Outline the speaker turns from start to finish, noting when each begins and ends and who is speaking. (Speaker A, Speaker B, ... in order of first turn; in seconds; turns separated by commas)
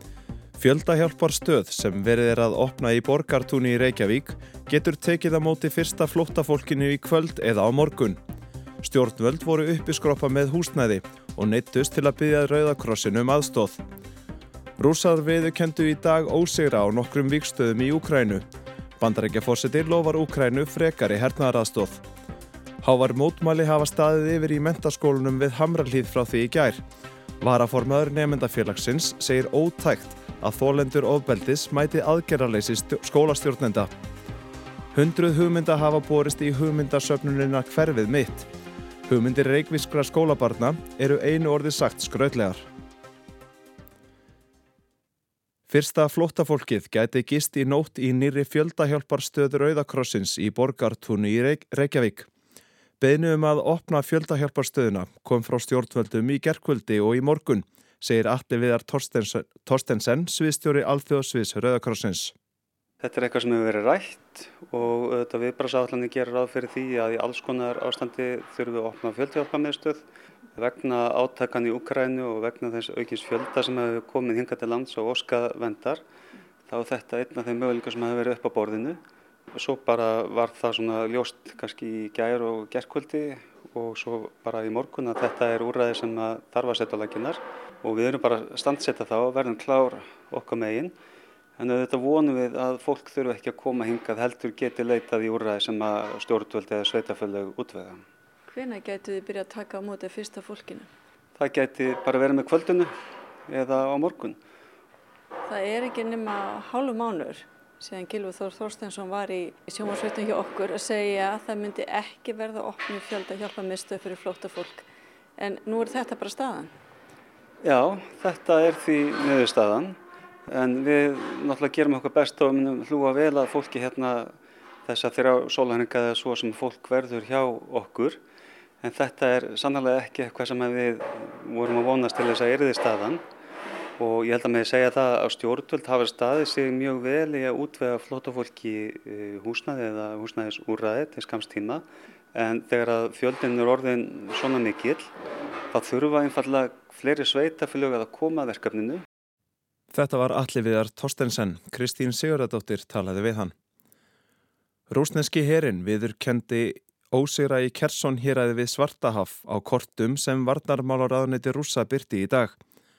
Speaker A: 0.6-8.2, Speaker A: 8.8-13.8, Speaker A: 14.8-18.4, Speaker A: 19.0-22.0, Speaker A: 22.8-26.8, Speaker A: 27.4-33.9, Speaker A: 34.9-38.5, Speaker A: 39.1-42.7, Speaker A: 45.7-52.3, Speaker A: 53.0-62.3, Speaker B: 63.0-76.0, Speaker B: 76.7-79.0, Speaker B: 79.5-91.0, Speaker B: 91.6-98.0, Speaker C: 98.5-100.9, Speaker B: 101.3-102.9, Speaker B: 103.5-104.4, Speaker C: 105.5-116.7, Speaker B: 117.6-128.2, Speaker B: 128.8-133.2, Speaker B: 134.0-145.1, Speaker B: 145.7-149.0, Speaker A: 149.9-153.5, Speaker A: 154.9-162.6